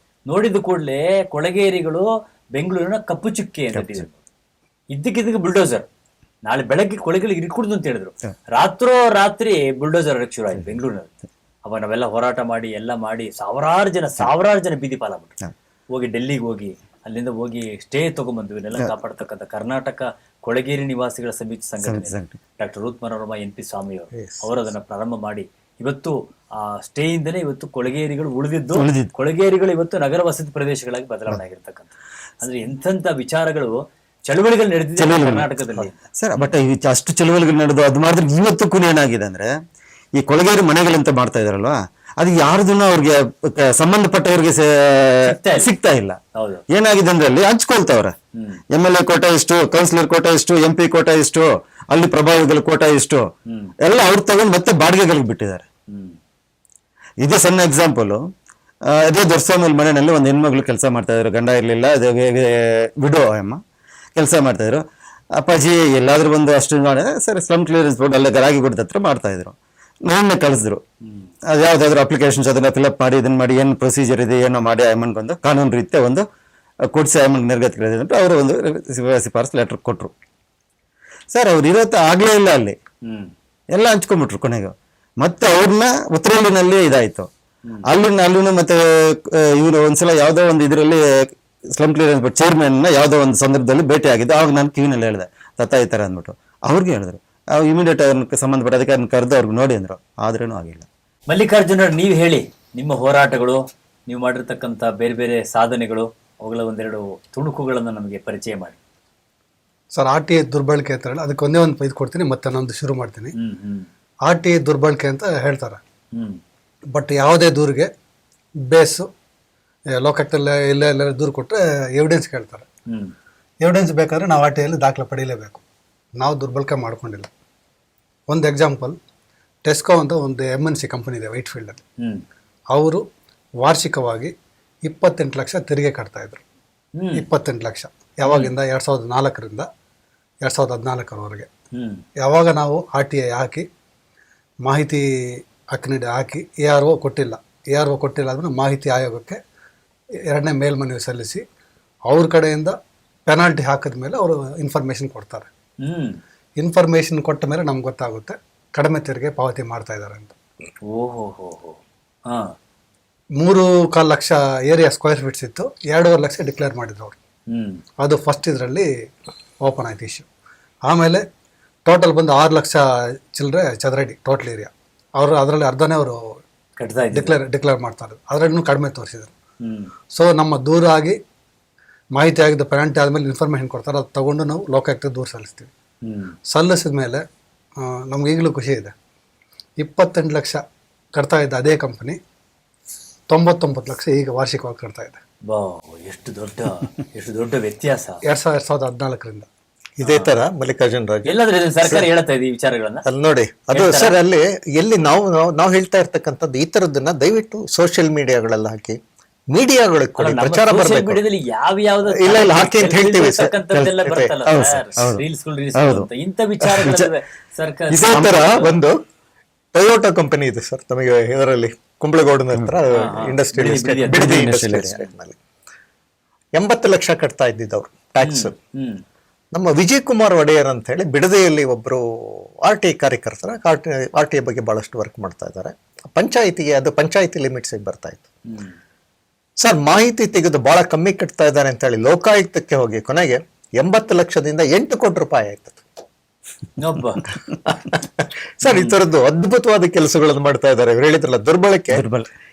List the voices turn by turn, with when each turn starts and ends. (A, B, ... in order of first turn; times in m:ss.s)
0:00.3-0:04.1 A
0:04.9-0:05.8 A
0:06.4-0:11.1 A
0:11.6-0:15.3 A
0:15.9-0:36.5 A
0:21.8-0:22.4 B
0:24.1-0:24.4 C
0:28.7-0:29.1 B
0:35.0-0:39.5 B
0:40.2-0:46.2 B
0:45.2-0:45.7 A
0:46.3-0:46.6 A
0:46.7-0:48.1 B
0:48.4-0:48.6 A
0:48.7-0:53.3 B
0:53.5-0:53.7 A
0:53.8-0:55.6 B
0:55.9-0:56.2 A
0:57.2-0:58.2 B
0:58.9-1:03.6 B
1:04.2-1:04.8 B
1:05.4-1:09.5 B
1:10.0-1:10.8 B
1:11.5-1:16.2 B
1:16.9-1:20.1 B
1:21.3-1:22.8 B
1:23.0-1:23.3 A
1:23.7-1:27.3 B
1:27.8-1:40.8 B
1:41.3-1:48.8 A
1:49.9-1:53.3 D
1:53.3-1:53.9 A
1:54.2-1:55.8 D
1:56.1-1:56.4 A
1:56.9-1:57.9 D
1:58.6-1:59.1 D
2:00.0-2:02.6 D
2:02.9-2:03.1 A
2:03.6-2:05.6 D
2:06.2-2:07.3 D
2:08.3-2:09.0 D
2:09.6-2:11.8 D
2:12.7-2:13.0 D
2:13.6-2:14.3 D
2:14.8-2:16.4 D
2:17.0-2:17.2 A
2:17.2-2:19.7 D
2:18.2-2:18.5 A
2:20.4-2:21.5 D
2:21.7-2:22.0 A
2:22.2-2:23.7 D
2:24.6-2:29.4 D
2:30.3-2:31.4 D
2:32.1-2:32.8 D
2:33.3-2:35.5 D
2:35.8-2:36.2 A
2:36.6-2:40.3 D
2:40.9-2:42.5 A
2:43.4-2:47.2 D
2:47.5-2:47.8 A
2:48.0-2:48.9 D
2:49.6-2:50.2 D
2:50.8-2:51.2 D
2:51.8-2:56.4 D
2:56.8-2:57.4 A
2:57.1-2:59.3 D
2:59.6-2:59.9 A
3:00.1-3:01.2 D
3:02.1-3:05.7 D
3:06.0-3:06.3 A
3:06.5-3:07.2 D
3:07.8-3:08.9 D
3:09.8-3:10.6 D
3:11.1-3:12.2 D
3:13.3-3:15.2 D
3:15.5-3:18.2 A
3:18.2-3:19.5 D
3:20.0-3:22.1 C
3:20.0-3:20.3 A
3:21.2-3:23.0 A
3:23.0-3:29.0 C
3:23.7-3:24.2 A
3:29.5-3:31.2 C
3:30.2-3:38.7 A
3:32.0-3:34.3 C
3:33.7-3:35.2 B
3:35.7-3:36.1 B
3:36.6-3:37.1 B
3:37.9-3:39.0 C
3:38.1-3:38.6 B
3:39.7-3:45.4 C
3:42.9-3:44.6 A
3:44.1-3:45.0 B
3:46.6-3:48.5 C
3:48.2-3:49.0 A
3:49.5-3:58.2 C
3:58.5-3:58.7 A
3:59.6-4:05.8 C
4:06.8-4:07.2 A
4:07.6-4:12.0 C
4:08.6-4:08.9 A
4:11.9-4:12.3 B